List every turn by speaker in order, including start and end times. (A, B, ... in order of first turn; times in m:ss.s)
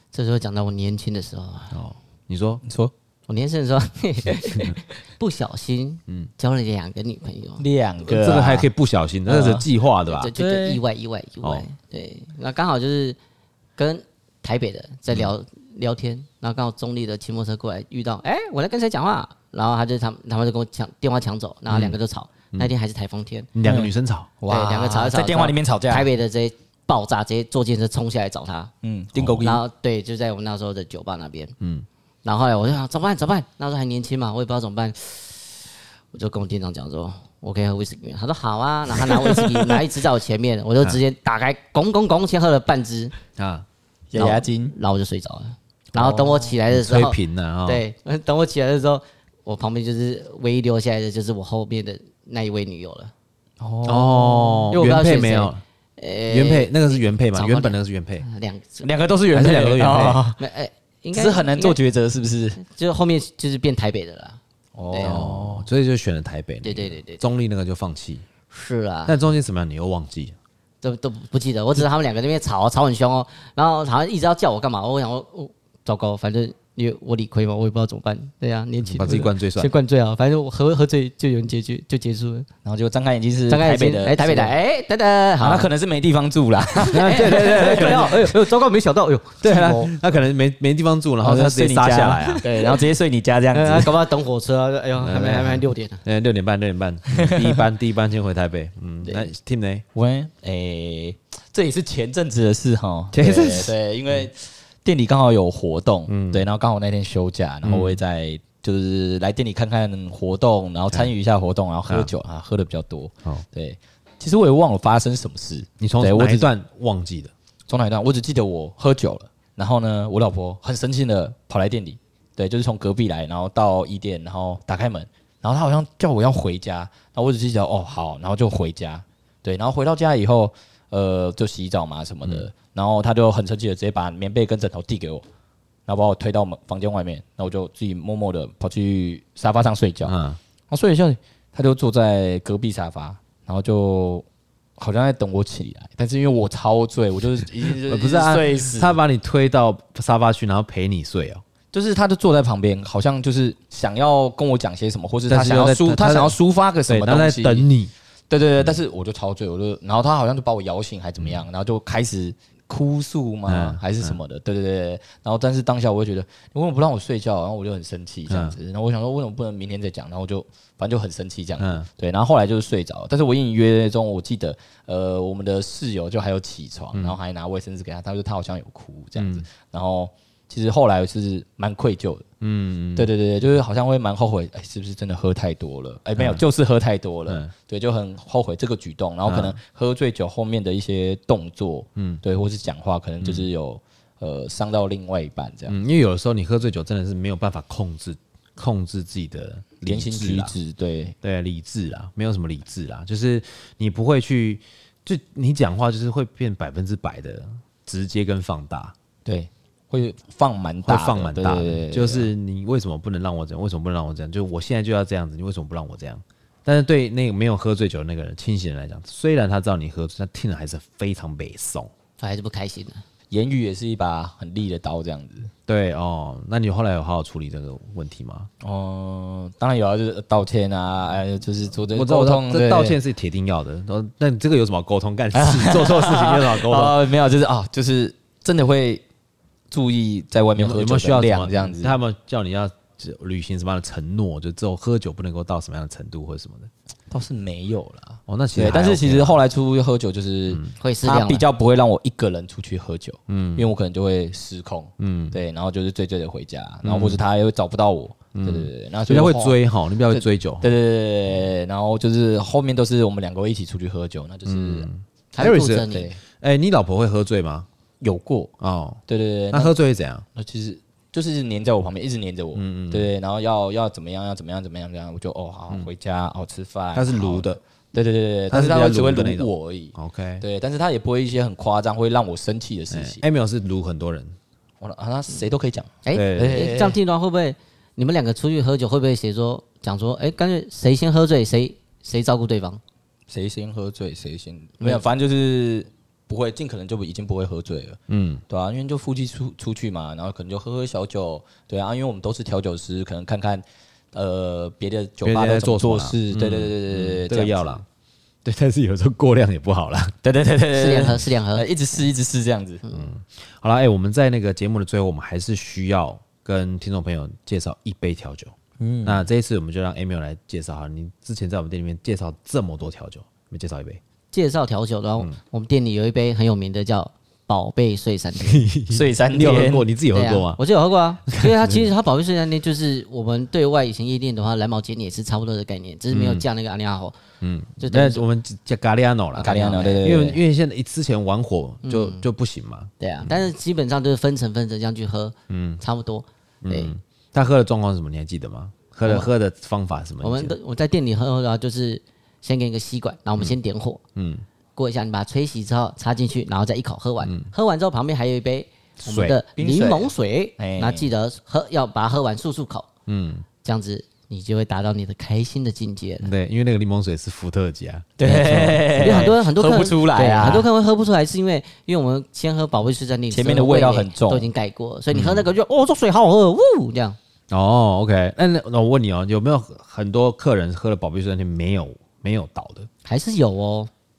0:00.1-0:01.7 A
0:01.7-0:02.6 B
0:02.6-0:02.9 C
0:03.3-0:07.6 A
0:07.6-0:08.7 C
0:08.0-0:10.3 B
0:09.3-0:09.6 C
0:10.1-0:13.2 A
0:10.4-0:10.8 C
0:13.8-0:23.5 A
0:21.7-0:22.0 B
0:23.5-0:24.3 B
0:23.6-0:26.1 C
0:24.5-0:28.7 A
0:28.8-0:29.4 C
0:29.1-0:29.6 B
0:29.4-0:31.5 A
0:31.6-0:31.8 B
0:32.2-0:43.1 A
0:39.0-0:39.8 C
0:43.4-0:43.6 B
0:44.1-0:44.7 C
0:44.1-0:53.1 A
0:46.0-0:46.6 C
0:46.7-0:47.8 B
0:53.6-0:54.7 C
0:53.8-0:55.6 B
0:54.7-0:58.9 A
0:56.3-0:58.2 B
0:58.8-1:00.4 C
0:59.3-1:00.2 B
0:59.4-1:01.8 A
1:01.1-1:02.6 C
1:02.6-1:05.2 A
1:04.7-1:05.7 C
1:05.0-1:08.2 B
1:06.6-1:07.2 A
1:08.5-1:09.1 A
1:09.0-1:10.4 B
1:10.8-1:22.5 A
1:18.8-1:19.7 B
1:22.6-1:24.5 C
1:23.5-1:25.7 A
1:25.4-1:28.3 C
1:26.8-1:28.1 B
1:26.9-1:29.9 A
1:29.4-1:32.5 B
1:31.2-1:34.0 C
1:33.5-1:36.0 A
1:35.0-1:39.8 B
1:37.2-1:37.6 C
1:39.9-1:56.5 C
1:43.1-1:44.3 B
1:46.1-1:46.4 B
1:47.6-1:48.0 B
1:51.9-1:52.1 B
1:55.8-1:57.3 B
1:57.7-2:15.2 C
2:15.9-2:20.1 C
2:20.0-2:20.4 B
2:20.7-2:24.2 C
2:24.8-2:29.0 C
2:27.9-2:31.4 B
2:31.7-2:37.7 C
2:35.3-2:36.3 B
2:36.9-2:37.9 B
2:38.3-3:02.2 C
2:43.5-2:44.2 B
2:48.3-2:48.6 B
2:51.6-2:51.9 B
2:56.9-2:57.2 B
2:59.2-2:59.4 B
3:02.4-3:03.1 B
3:03.0-3:15.7 C
3:06.2-3:06.4 B
3:07.3-3:07.5 B
3:09.2-3:09.6 B
3:13.2-3:13.5 B
3:15.7-3:20.5 B
3:19.8-3:21.1 C
3:21.2-3:28.9 B
3:29.2-3:32.3 C
3:30.8-3:41.9 B
3:42.2-3:43.0 A
3:43.3-3:45.5 C
3:45.7-3:48.5 B
3:48.6-3:53.0 C
3:51.9-3:57.0 B
3:55.3-3:59.0 C
3:59.7-4:02.0 C
4:00.6-4:06.7 B
4:07.1-4:19.6 C
4:08.3-4:09.4 B
4:10.8-4:11.4 A
4:13.3-4:13.7 B
4:15.0-4:15.4 B
4:16.8-4:17.2 B
4:18.3-4:20.7 B
4:20.1-4:24.9 C
4:24.4-4:27.7 B
4:25.3-4:26.1 A
4:25.4-4:26.2 C
4:28.0-4:28.5 C
4:28.6-4:30.2 B
4:29.1-4:29.7 C
4:30.3-4:43.2 C
4:32.5-4:33.1 B
4:36.9-4:37.6 B
4:38.5-4:40.4 B
4:42.9-4:44.4 B
4:44.8-4:47.0 C
4:46.0-4:52.8 A
4:46.1-4:46.7 B
4:53.3-4:58.0 C
4:58.1-4:58.4 B
4:58.5-5:07.8 C
5:05.2-5:07.8 B
5:08.4-5:10.2 B
5:10.2-5:12.8 C
5:10.7-5:11.7 A
5:12.9-5:24.0 B
5:18.8-5:19.3 C
5:24.3-5:28.6 A
5:28.4-5:30.6 B
5:28.9-5:29.8 C
5:30.1-5:37.1 A
5:31.3-5:31.9 B
5:36.1-5:36.4 B
5:37.4-5:43.4 B
5:37.8-5:38.2 A
5:39.4-5:40.1 A
5:39.4-5:40.4 C
5:41.8-5:42.2 A
5:43.0-5:46.9 A
5:45.5-5:45.8 B
5:46.6-5:50.5 B
5:49.0-5:49.3 A
5:50.2-5:54.0 A
5:54.2-5:54.4 B
5:54.8-6:02.9 A
5:57.2-5:57.5 B
5:59.0-5:59.4 B
5:59.5-6:01.1 C
6:03.1-6:03.4 B
6:03.6-6:06.3 A
6:06.2-6:09.3 B
6:08.2-6:10.7 C
6:08.4-6:17.2 A
6:13.3-6:14.5 C
6:15.1-6:15.5 B
6:17.5-6:22.9 B
6:23.0-6:23.9 A